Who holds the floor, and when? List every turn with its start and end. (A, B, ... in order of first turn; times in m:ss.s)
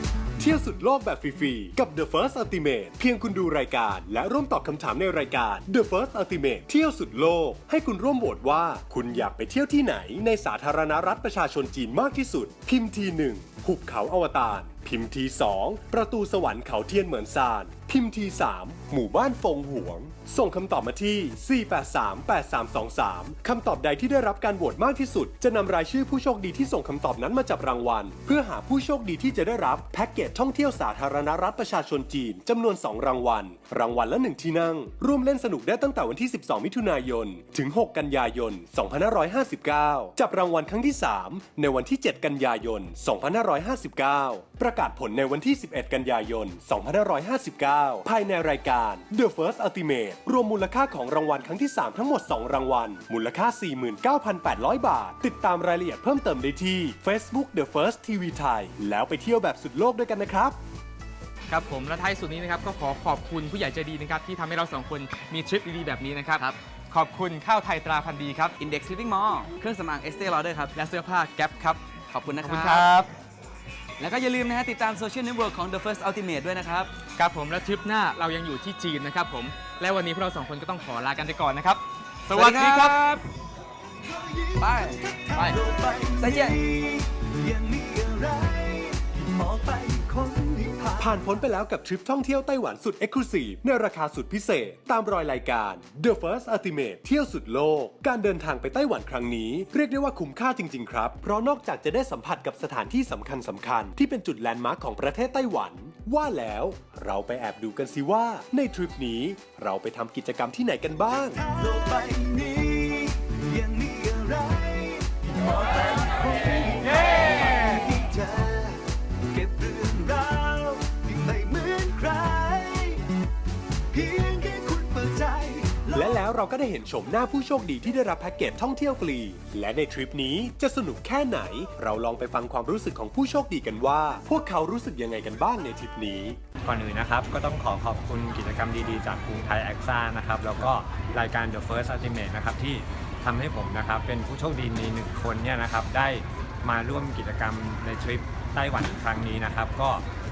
0:00.4-1:00.6 A
1:01.5-1:08.5 B
1:08.6-1:10.7 C
1:10.8-1:11.8 B
1:12.1-1:12.9 C
1:12.4-1:13.1 B
1:14.0-1:16.9 C
1:17.2-1:23.0 B
1:22.3-1:23.2 C
1:24.0-1:31.0 D
1:24.6-1:25.0 C
1:26.2-1:26.6 C
1:31.0-1:51.4 A
1:51.3-2:03.1 D
2:03.9-2:06.2 D
2:05.9-2:16.4 A
2:16.6-2:30.0 E